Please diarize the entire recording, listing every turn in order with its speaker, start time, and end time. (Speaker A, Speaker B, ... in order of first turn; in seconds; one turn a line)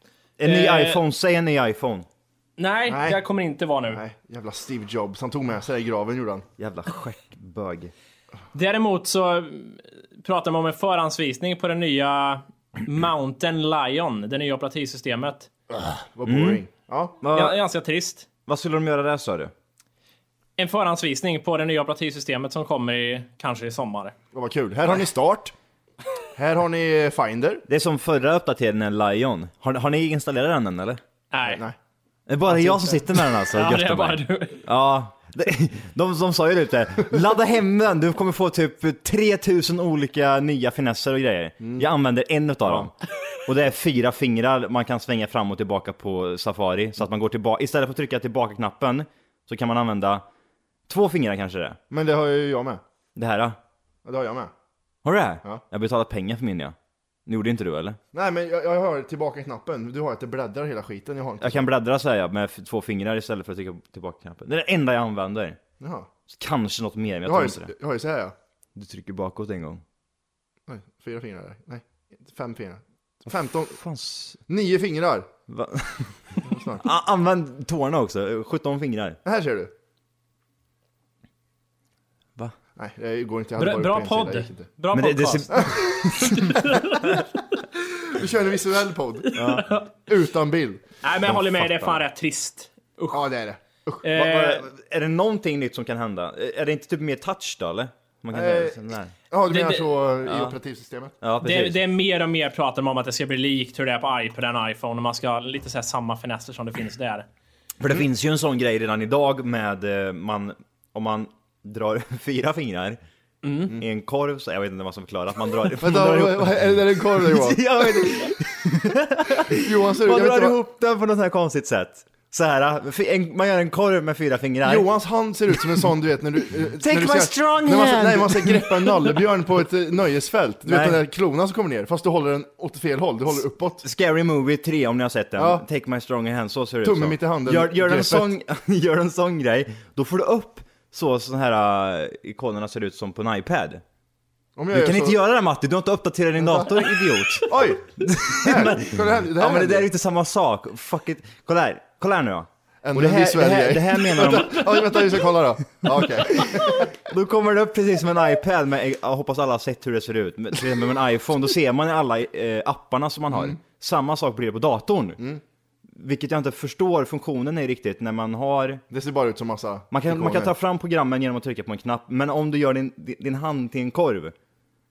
Speaker A: 0.4-2.1
Speaker B: 0.4-1.0
Speaker B: 2.6-4.0
Speaker C: 2.9-3.2
Speaker C: 3.9-6.4
Speaker A: 6.6-7.9
Speaker B: 8.5-15.5
Speaker C: 16.0-17.2
Speaker A: 16.2-16.6
Speaker A: 17.2-17.6
Speaker B: 17.2-18.2
Speaker A: 18.5-19.5
Speaker B: 20.6-24.1
Speaker C: 24.3-25.5
Speaker C: 26.4-27.6
Speaker A: 27.7-31.0
Speaker B: 31.3-31.6
Speaker C: 31.4-31.8
Speaker A: 32.3-42.9
Speaker B: 32.5-34.6
Speaker C: 41.6-41.9
Speaker A: 43.5-50.2
Speaker A: 50.9-51.8
Speaker C: 51.9-52.8
Speaker A: 53.1-53.6
Speaker C: 54.0-54.5
Speaker A: 55.0-56.7
Speaker A: 57.3-58.0
Speaker C: 58.1-61.7
Speaker A: 61.4-65.6
Speaker C: 65.8-66.1
Speaker A: 66.3-67.7
Speaker C: 67.2-68.3
Speaker A: 68.7-69.8
Speaker C: 70.7-73.8
Speaker A: 73.7-74.4
Speaker C: 74.5-75.3
Speaker A: 75.5-79.2
Speaker C: 76.4-76.8
Speaker C: 79.2-79.7
Speaker C: 82.8-84.7
Speaker B: 83.6-87.2
Speaker A: 84.9-87.2
Speaker C: 88.1-89.4
Speaker B: 89.3-89.9
Speaker A: 89.3-89.7
Speaker C: 90.1-90.8
Speaker B: 91.0-93.3
Speaker A: 91.2-92.0
Speaker C: 93.1-94.1
Speaker B: 94.0-94.6
Speaker A: 94.1-99.1
Speaker C: 98.3-98.8
Speaker C: 99.3-101.2
Speaker B: 99.5-99.9
Speaker A: 100.2-100.5
Speaker A: 101.2-101.8
Speaker B: 101.4-107.3
Speaker A: 107.8-113.0
Speaker B: 113.4-113.7
Speaker A: 113.7-124.9
Speaker C: 115.8-118.3
Speaker C: 119.5-120.6
Speaker C: 124.6-133.8
Speaker A: 126.8-128.9
Speaker A: 130.7-131.0
Speaker A: 133.8-143.8
Speaker C: 135.4-135.6
Speaker C: 136.8-138.3
Speaker C: 144.6-145.2
Speaker A: 144.7-155.0
Speaker C: 146.4-146.7
Speaker C: 147.4-149.9
Speaker C: 152.8-156.9
Speaker A: 156.3-165.2
Speaker C: 163.3-163.6
Speaker A: 165.9-168.8
Speaker C: 168.9-170.5
Speaker A: 169.9-174.3